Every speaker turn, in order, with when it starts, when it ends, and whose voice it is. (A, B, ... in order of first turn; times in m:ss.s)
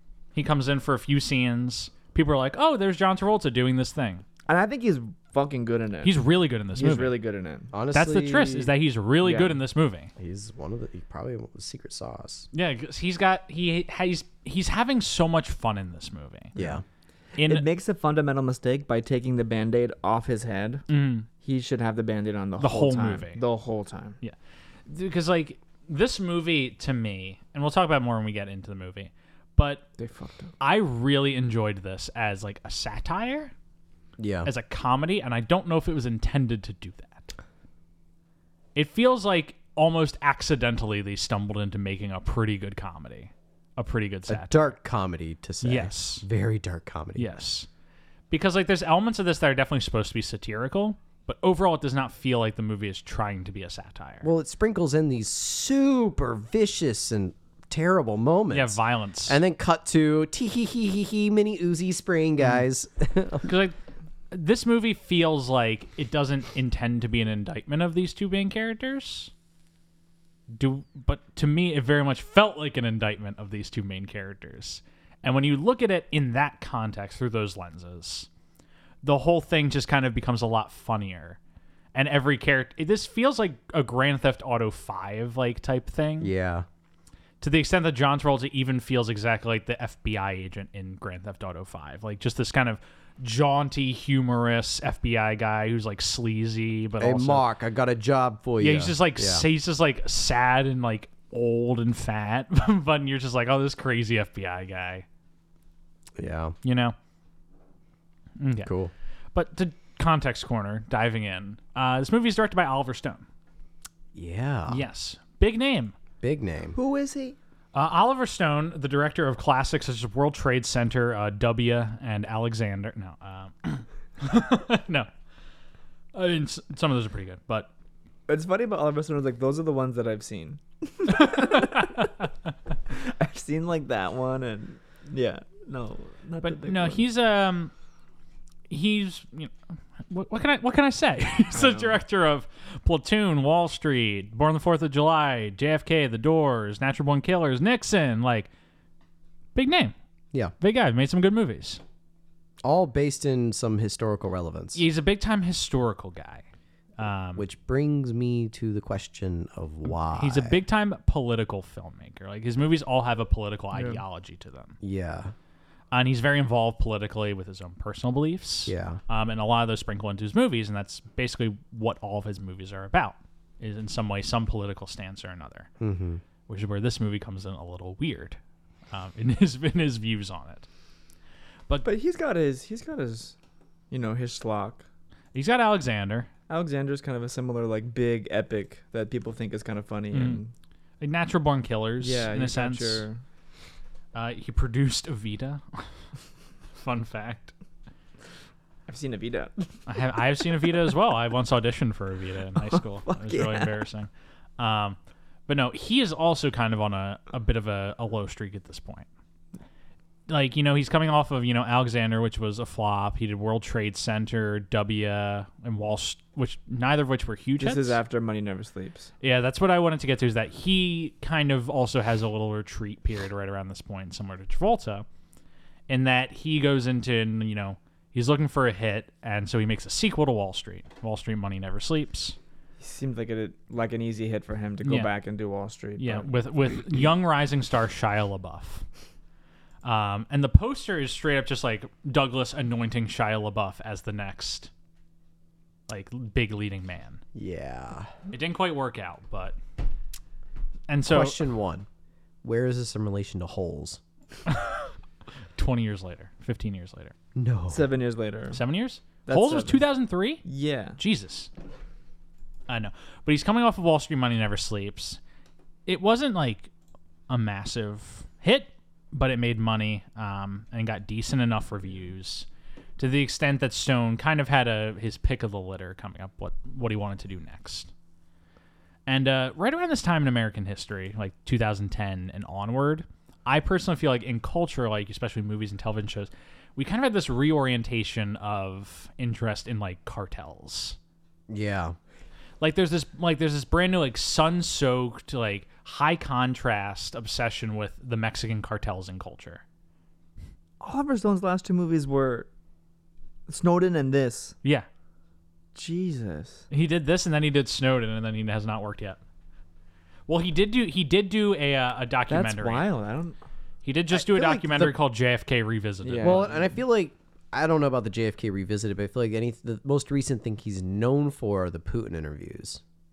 0:00.4-0:04.2 A
0:04.5-0:06.2 B
0:06.0-0:07.2 A
0:06.7-0:07.7 B
0:07.7-0:08.7 C
0:07.9-0:10.1 A
0:09.2-0:09.6 B
0:10.2-0:12.5 C
0:12.5-0:16.6 A
0:16.6-0:16.8 C
0:17.4-0:17.7 A
0:17.4-0:20.9 B
0:20.9-0:21.3 A
0:21.4-0:24.2 B
0:22.6-0:23.4 A
0:24.9-0:29.9 A
0:30.0-0:30.5 B
0:30.6-0:33.5 A
0:34.2-0:34.5 C
0:34.4-0:37.3 A
0:38.8-0:44.8 A
0:44.3-0:47.3 C
0:45.6-0:46.2 A
0:47.2-0:47.7 A
0:48.3-0:54.3 A
0:54.2-1:03.5 C
0:58.5-0:59.4 A
1:03.4-1:03.8 A
1:04.3-1:09.3 A
1:10.5-1:18.3 A
1:19.0-1:21.4 A
1:22.0-1:26.3 A
1:26.2-1:26.7 C
1:27.4-1:37.5 A
1:37.0-1:39.4 C
1:38.6-1:45.0 A
1:46.2-1:46.6 C
1:46.6-1:47.0 A
1:48.4-1:48.7 A
1:48.6-1:48.9 C
1:49.3-1:53.2 A
1:54.1-1:54.8 C
1:54.7-1:55.9 A
1:56.2-1:56.8 C
1:56.8-1:57.4 B
1:57.7-2:05.1 A
2:06.1-2:07.7 A
2:08.3-2:12.1 B
2:11.1-2:12.3 A
2:12.9-2:17.1 B
2:16.4-2:17.7 A
2:18.7-2:19.5 A
2:20.1-2:28.5 A
2:21.5-2:22.0 B
2:29.6-2:30.0 A
2:30.6-2:31.8 A
2:32.6-2:34.8 C
2:34.8-2:36.4 A
2:37.0-2:37.5 A
2:37.4-2:40.6 C
2:40.0-2:44.8 A
2:44.8-2:45.3 C
2:45.9-2:55.7 A
2:48.7-2:49.0 C
2:55.8-2:56.2 C
2:56.5-2:58.4 A
2:58.9-3:00.7 A
3:01.8-3:03.4 B
3:03.9-3:04.8 B
3:05.3-3:06.3 A
3:06.5-3:10.5 B
3:10.1-3:10.4 A
3:11.0-3:13.0 A
3:12.0-3:13.2 B
3:14.1-3:15.9 A
3:16.8-3:17.5 A
3:18.9-3:19.7 B
3:19.9-3:29.1 A
3:22.7-3:23.8 B
3:30.3-3:38.0 A
3:37.6-3:39.1 B
3:39.2-3:45.1 A
3:45.9-3:52.4 A
3:52.8-3:56.3 B
3:54.8-3:55.1 A
3:56.0-3:58.8 A
3:59.8-4:04.7 A
4:05.9-4:07.2 A
4:07.4-4:08.1 C
4:08.3-4:09.6 A
4:10.9-4:11.4 A
4:11.1-4:11.9 C
4:12.4-4:14.0 C
4:14.5-4:14.9 A
4:15.6-4:17.1 A
4:17.4-4:17.8 C
4:17.7-4:18.6 B
4:18.5-4:20.4 A
4:19.3-4:19.9 B
4:20.4-4:21.0 B
4:21.0-4:21.5 A
4:22.7-4:25.2 A
4:25.9-4:26.7 A
4:27.3-4:32.5 A
4:33.0-4:37.9 A
4:39.1-4:51.0 A
4:51.5-4:52.0 C
4:52.6-4:59.6 A
5:00.8-5:02.5 B
5:03.5-5:04.6 B
5:05.8-5:06.7 B
5:06.7-5:09.2 A
5:10.3-5:12.9 A
5:12.3-5:13.4 B
5:13.8-5:16.5 A
5:14.1-5:15.0 C
5:16.0-5:16.7 B
5:16.2-5:22.8 C